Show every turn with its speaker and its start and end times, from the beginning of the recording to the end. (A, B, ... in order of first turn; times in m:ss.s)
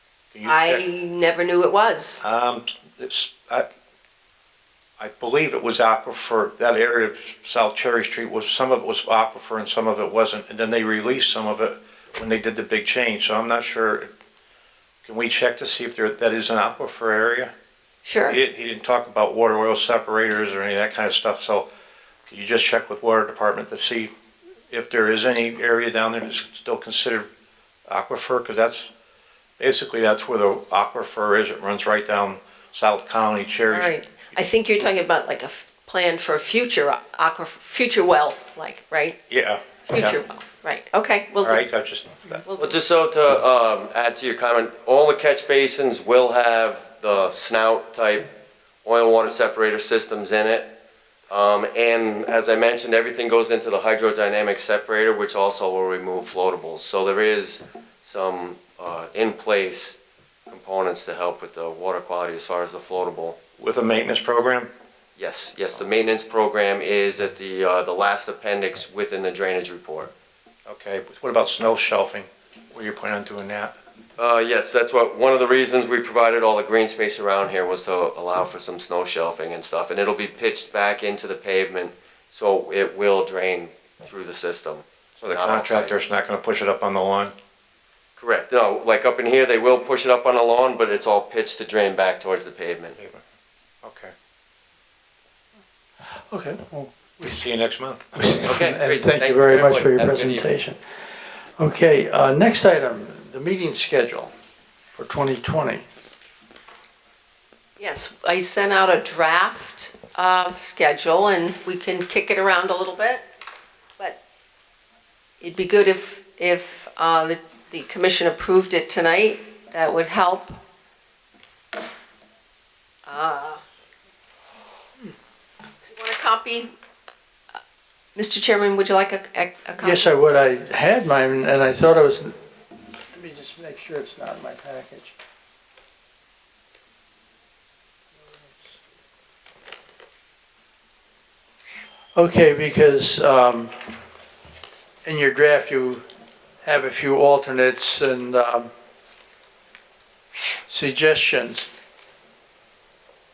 0:00.3-0:00.8 A
0:00.4-0:02.2 B
0:02.2-0:03.6 A
0:05.0-0:14.1 A
0:15.0-0:17.5 A
0:18.0-0:18.4 B
0:18.3-0:21.7 A
0:22.3-0:24.1 A
0:24.7-0:27.3 A
0:27.9-0:28.9 A
0:29.6-0:33.9 A
0:33.7-0:39.2 B
0:39.3-0:40.2 A
0:39.9-0:41.6 B
0:41.4-0:42.4 A
0:42.4-0:42.8 B
0:42.6-0:48.3 C
0:48.8-0:50.8 C
0:51.3-1:03.4 C
1:03.6-1:04.7 A
1:05.2-1:10.1 C
1:10.7-1:13.7 A
1:14.2-1:25.9 C
1:25.2-1:27.3 A
1:28.2-1:33.0 C
1:33.8-1:34.1 A
1:36.3-1:37.4 D
1:37.2-1:38.5 A
1:38.1-1:40.8 D
1:38.4-1:40.5 C
1:41.6-1:44.3 D
1:44.9-1:45.8 D
1:47.8-1:53.2 B
1:55.4-2:00.5 B
2:03.0-2:03.6 B
2:05.8-2:06.7 B
2:08.2-2:10.0 B
2:09.8-2:12.4 D
2:13.1-2:15.2 D
2:22.2-2:23.7 D
2:25.0-2:26.0 D
2:26.6-2:28.7 D
2:30.7-2:31.7 D